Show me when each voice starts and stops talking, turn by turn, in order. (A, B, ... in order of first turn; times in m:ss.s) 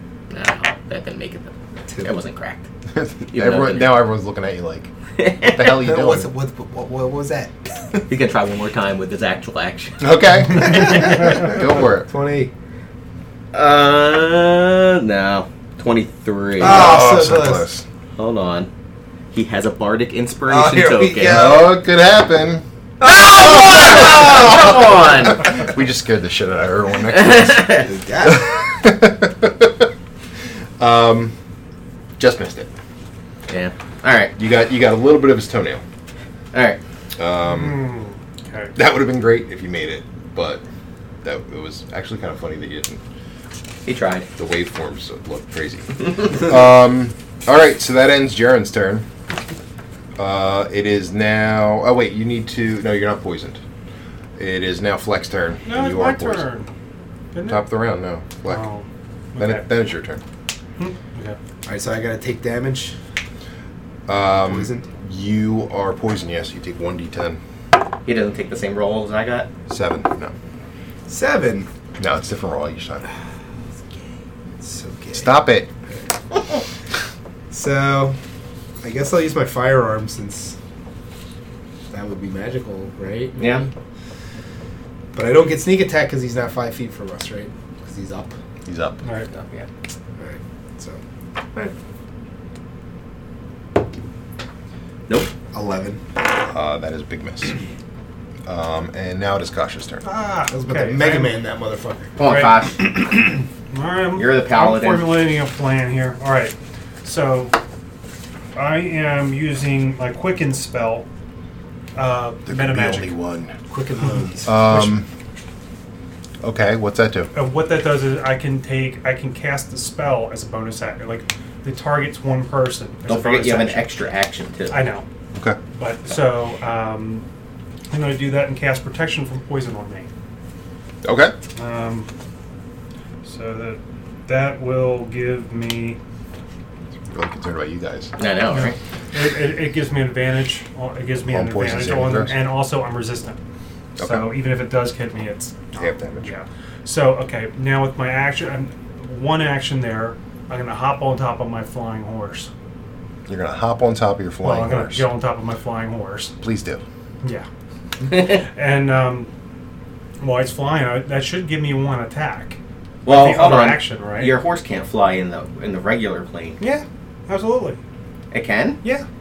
0:00.3-0:02.6 A
0:02.9-0:04.9 B
0:03.3-0:04.0 A
0:05.2-0:05.8 A
0:05.4-0:06.3 B
0:05.7-0:08.0 C
0:08.1-0:10.0 A
0:10.0-0:12.1 B
0:10.5-0:11.2 A
0:10.7-0:12.5 C
0:13.5-0:17.0 A
0:16.6-0:17.6 C
0:16.6-0:17.8 B
0:18.2-0:18.7 A
0:19.3-0:21.6 A
0:20.5-0:21.7 C
0:21.2-0:22.6 B
0:23.0-0:24.8 C
0:23.0-0:25.6 A
0:24.2-0:29.9 B
0:27.1-0:27.9 A
0:27.8-0:28.6 C
0:30.8-0:31.3 B
0:32.2-0:32.7 B
0:33.5-0:34.3 A
0:34.4-0:35.8 B
0:36.5-0:36.8 A
0:37.2-0:37.9 B
0:37.4-0:38.7 D
0:38.8-0:40.6 B
0:41.2-0:43.0 B
0:43.8-0:44.3 A
0:44.4-0:49.0 B
0:50.2-0:53.6 B
0:54.4-0:56.4 B
0:55.6-0:56.7 D
0:57.3-0:57.7 D
0:57.4-0:58.6 B
0:58.4-0:59.7 D
0:59.4-1:00.2 B
1:00.8-1:01.4 D
1:01.6-1:03.0 C
1:04.1-1:07.4 B
1:04.3-1:04.9 C
1:08.0-1:09.5 A
1:09.7-1:10.3 B
1:11.1-1:11.7 C
1:12.0-1:13.0 B
1:14.6-1:16.1 C
1:15.1-1:15.7 B
1:17.5-1:18.2 C
1:18.8-1:20.6 C
1:21.9-1:23.7 C
1:23.4-1:23.6 A
1:25.1-1:28.3 C
1:28.6-1:29.0 B
1:29.0-1:29.3 D
1:29.3-1:29.7 A
1:30.2-1:31.0 C
1:35.5-1:36.0 C
1:36.5-1:37.6 B
1:38.4-1:40.0 B
1:40.0-1:41.4 D
1:40.5-1:42.1 C
1:42.2-1:43.0 A
1:42.2-1:42.7 D
1:43.7-1:47.5 D
1:44.2-1:45.2 A
1:48.5-1:51.0 D
1:51.9-1:53.1 D
1:52.4-1:53.6 B
1:53.7-1:54.8 C
1:54.4-1:55.1 B
1:56.4-1:57.3 B
1:57.3-2:03.9 D
2:03.1-2:04.9 A
2:04.7-2:05.0 D
2:05.3-2:05.6 B
2:05.8-2:07.2 D
2:07.9-2:10.1 D
2:11.0-2:11.3 B
2:11.6-2:12.1 D
2:13.2-2:16.0 D
2:17.1-2:18.1 B
2:18.2-2:18.7 A
2:18.5-2:23.4 D
2:21.3-2:22.4 B
2:24.0-2:24.3 B
2:24.0-2:32.5 D
2:25.7-2:26.4 B
2:33.3-2:35.1 B
2:34.4-2:36.3 D
2:36.4-2:36.8 B
2:37.2-2:37.5 D
2:38.0-2:39.3 D
2:38.1-2:38.4 A
2:40.2-2:44.3 D
2:43.0-2:46.6 A
2:46.6-2:47.8 D
2:48.3-2:48.8 A